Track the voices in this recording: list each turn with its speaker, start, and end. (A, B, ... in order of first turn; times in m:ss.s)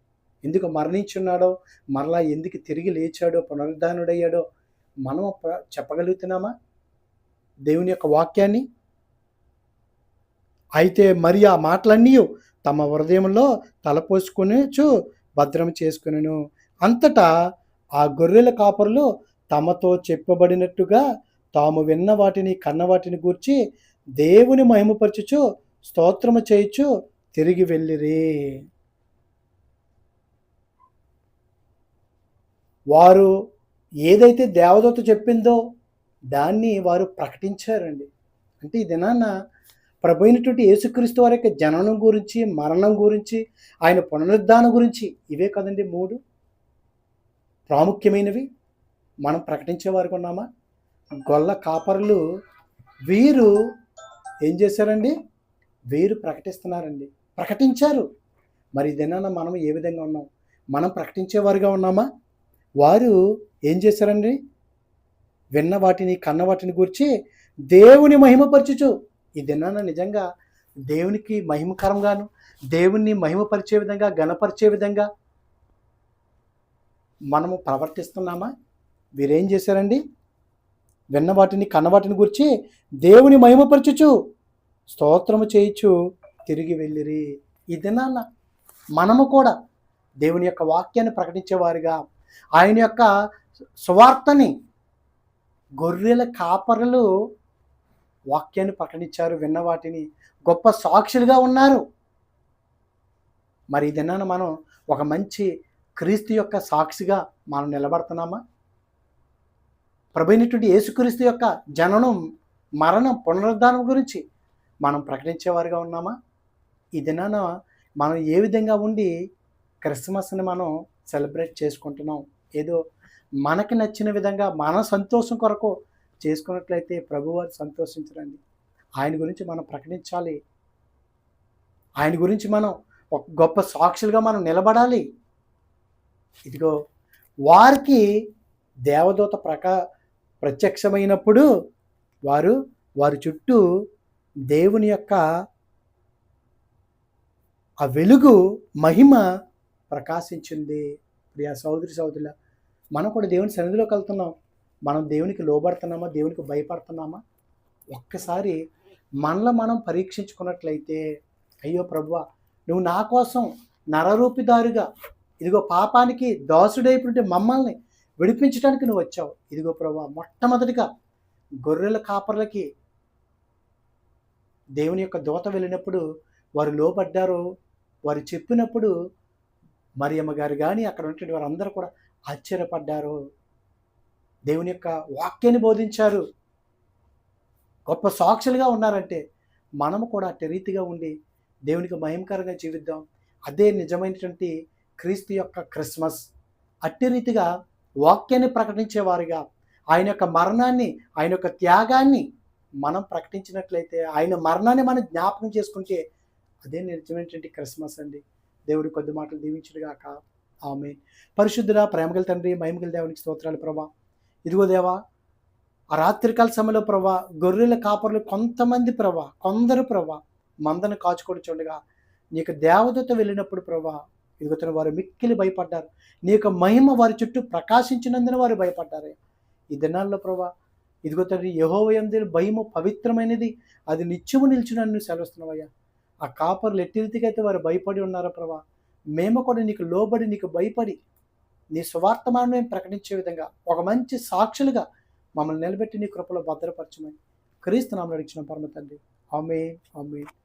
0:00.4-0:04.4 A
0:05.1-0:06.5 A
0:07.7-0:08.6 A
0:10.8-0:17.3 A
0:18.0-0:21.0 A
0:21.6-0:23.6 A
0:24.2-0:28.6 A
0:32.9-0:33.3 A
0:34.1-0:35.6 A
0:36.3-0:38.1 A
0:38.6-0:39.3 A
0:40.0-0:46.2 A
0:47.7-0:48.5 A
0:49.2-0:50.5 A
0:51.3-0:52.2 A
0:53.1-0:53.5 A
0:54.4-0:55.1 A
0:55.9-0:58.1 A
0:58.8-1:02.1 A
1:02.8-1:03.2 A
1:03.7-1:04.4 A
1:05.6-1:07.1 A
1:07.7-1:10.2 A
1:10.9-1:15.1 A
1:17.3-1:18.5 A
1:19.2-1:20.0 A
1:21.1-1:22.5 A
1:23.0-1:24.1 A
1:24.9-1:25.9 A
1:26.5-1:28.2 A
1:29.0-1:29.5 A
1:30.2-1:32.0 A
1:32.6-1:33.1 A
1:33.8-1:34.5 A
1:35.8-1:37.0 A
1:38.3-1:41.8 A
1:43.7-1:48.4 A
1:50.2-1:52.2 A
1:52.8-1:54.2 A
1:54.8-1:56.2 A
1:57.0-1:57.5 A
1:58.0-1:59.1 A
1:59.8-2:02.8 A
2:03.4-2:05.7 A
2:06.2-2:08.4 A
2:09.0-2:10.4 A
2:12.0-2:15.0 A
2:17.5-2:18.0 A
2:18.9-2:19.7 A
2:20.4-2:21.4 A
2:22.3-2:23.6 A
2:24.5-2:25.2 A
2:27.8-2:29.2 A
2:29.9-2:30.8 A
2:31.3-2:32.3 A
2:33.0-2:34.3 A
2:34.9-2:37.2 A
2:37.9-2:38.6 A
2:39.2-2:41.0 A
2:41.6-2:44.9 A
2:45.4-2:50.9 A
2:51.6-2:52.6 A
2:54.8-2:56.0 A
2:56.6-2:57.4 A
2:58.1-2:58.9 A
3:00.0-3:03.2 A
3:04.5-3:06.2 A
3:07.9-3:09.2 A
3:09.8-3:11.1 A
3:11.7-3:16.2 A
3:16.9-3:17.5 A
3:18.0-3:19.4 A
3:19.9-3:22.2 A
3:22.8-3:26.0 A
3:26.6-3:30.1 A
3:30.7-3:33.9 A
3:34.5-3:35.0 A
3:36.0-3:41.8 A
3:42.4-3:49.2 A
3:49.7-3:50.5 A
3:51.1-3:55.7 A
3:56.3-3:58.6 A
3:59.2-4:01.0 A
4:01.8-4:04.8 A
4:05.4-4:10.3 A